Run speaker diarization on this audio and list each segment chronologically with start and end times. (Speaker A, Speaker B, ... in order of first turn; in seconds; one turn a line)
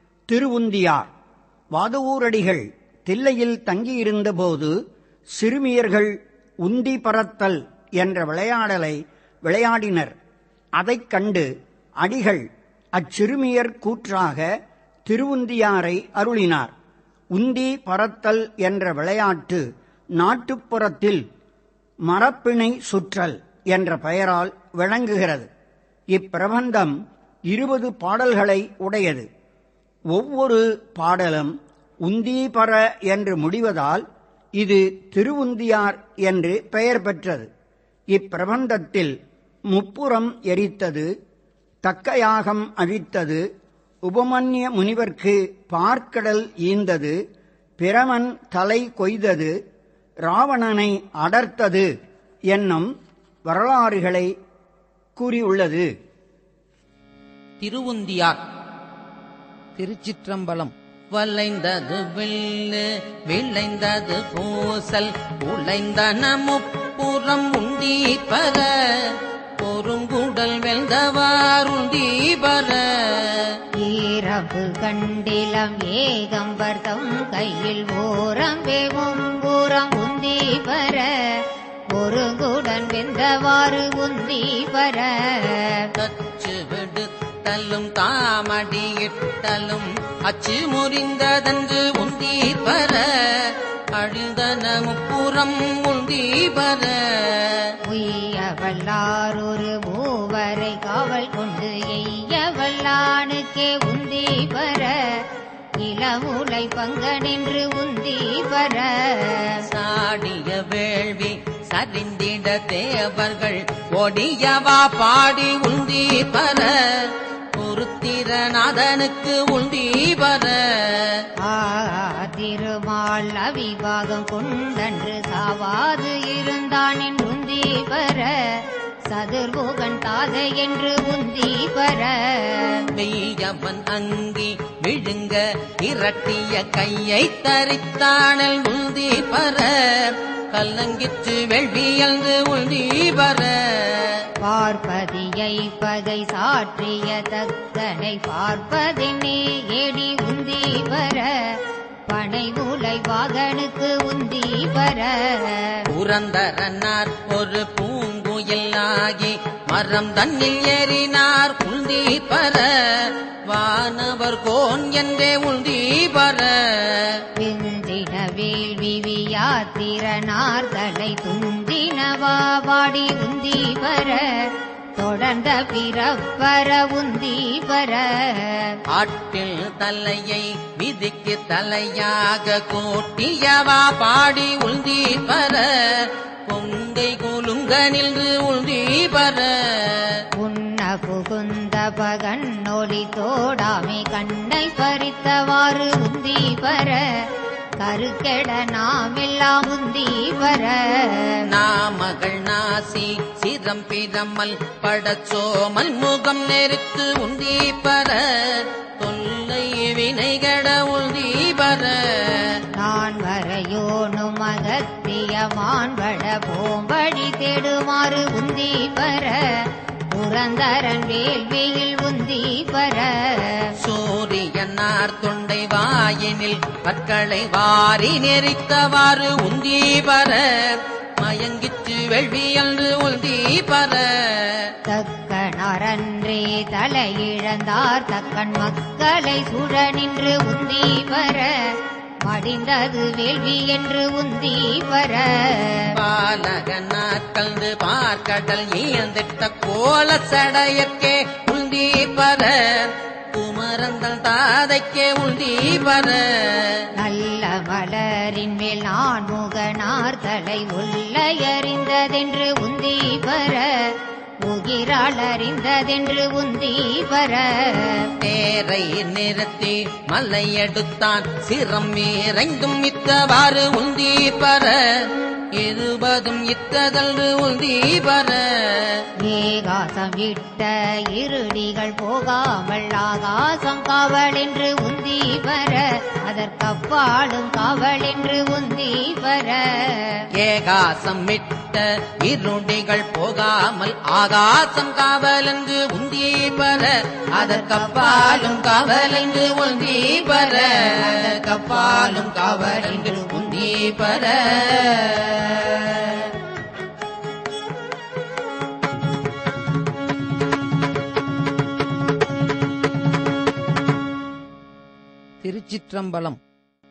Speaker A: 0.3-1.1
Speaker A: 1.7-4.7
Speaker A: 5.3-10.1
Speaker A: 10.8-11.5
Speaker A: 12.0-14.4
Speaker A: 15.1-16.7
Speaker A: 17.3-19.6
Speaker A: 20.2-21.2
Speaker A: 22.1-25.5
Speaker A: 26.1-26.9
Speaker A: 27.5-29.2
Speaker A: 30.1-31.5
Speaker A: 32.0-34.0
Speaker A: 34.6-37.5
Speaker A: 38.1-39.1
Speaker A: 39.7-41.1
Speaker A: 41.8-43.4
Speaker A: 44.0-47.2
Speaker A: 47.8-49.5
Speaker A: 50.2-51.9
Speaker A: 52.5-52.9
Speaker A: 53.5-54.3
Speaker A: 55.2-55.9
Speaker B: 57.6-58.4
Speaker B: 59.8-73.5
Speaker C: 73.8-85.9
Speaker B: 86.0-97.7
Speaker C: 97.8-105.2
Speaker C: 105.8-109.6
Speaker B: 109.7-121.2
Speaker C: 121.4-132.8
Speaker B: 132.9-144.2
Speaker C: 144.4-155.8
Speaker B: 155.9-167.2
Speaker C: 167.4-178.8
Speaker B: 178.9-190.2
Speaker C: 190.4-197.3
Speaker C: 197.8-201.4
Speaker B: 201.4-212.6
Speaker C: 212.7-223.7
Speaker B: 223.8-234.7
Speaker C: 234.9-245.9
Speaker B: 245.9-256.8
Speaker C: 257.0-264.0
Speaker C: 264.5-268.1
Speaker B: 268.2-279.0
Speaker C: 279.2-290.2
Speaker B: 290.4-306.3
Speaker C: 297.4-298.8
Speaker C: 300.2-303.4
Speaker B: 315.4-316.4